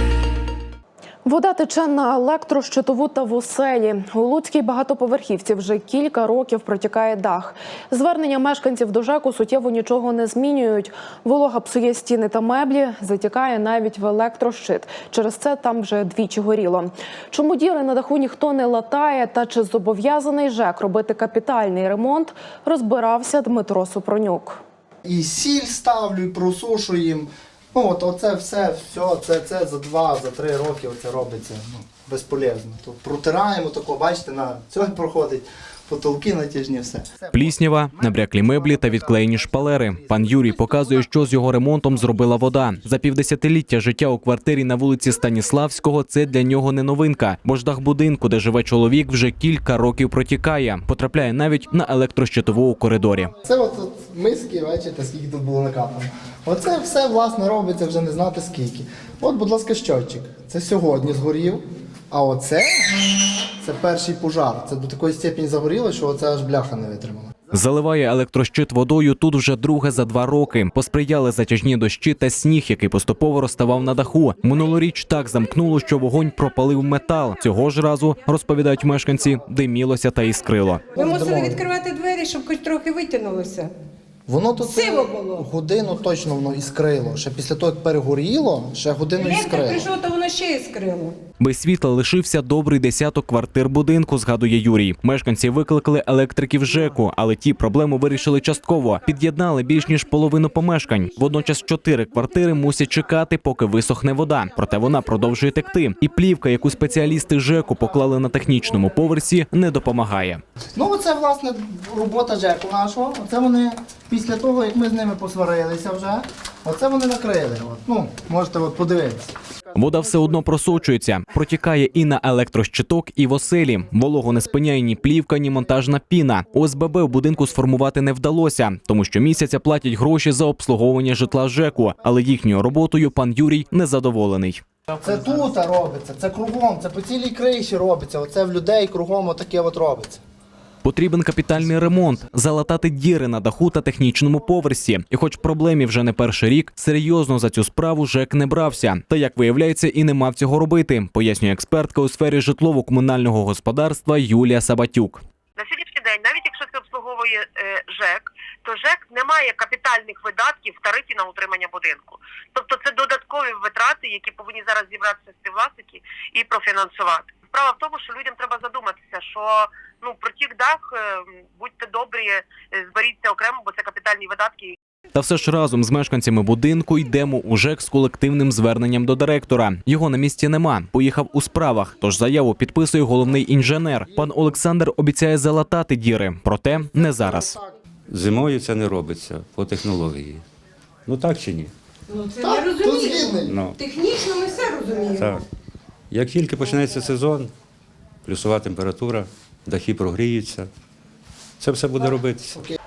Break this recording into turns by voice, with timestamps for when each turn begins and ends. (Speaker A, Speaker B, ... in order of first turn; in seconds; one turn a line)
Speaker A: 1.2-24.6
Speaker B: 25.1-37.4
Speaker C: 37.3-53.3
Speaker B: 38.1-39.0
Speaker B: 53.4-67.3
Speaker C: 67.5-80.9
Speaker D: 80.9-83.7
Speaker B: 81.0-81.7
Speaker B: 84.3-89.9
Speaker D: 84.6-85.4
Speaker D: 89.2-91.2
Speaker C: 91.4-110.4
Speaker B: 110.8-119.3
Speaker C: 119.7-134.6
Speaker B: 135.0-140.2
Speaker C: 140.8-155.2
Speaker E: 155.6-174.8
Speaker C: 175.1-187.6
Speaker F: 188.1-190.4
Speaker F: 191.1-191.7
Speaker D: 192.1-195.4
Speaker B: 192.4-193.5
Speaker F: 193.5-193.8
Speaker F: 195.2-195.4
Speaker F: 196.1-197.5
Speaker F: 198.2-200.7
Speaker F: 201.6-202.6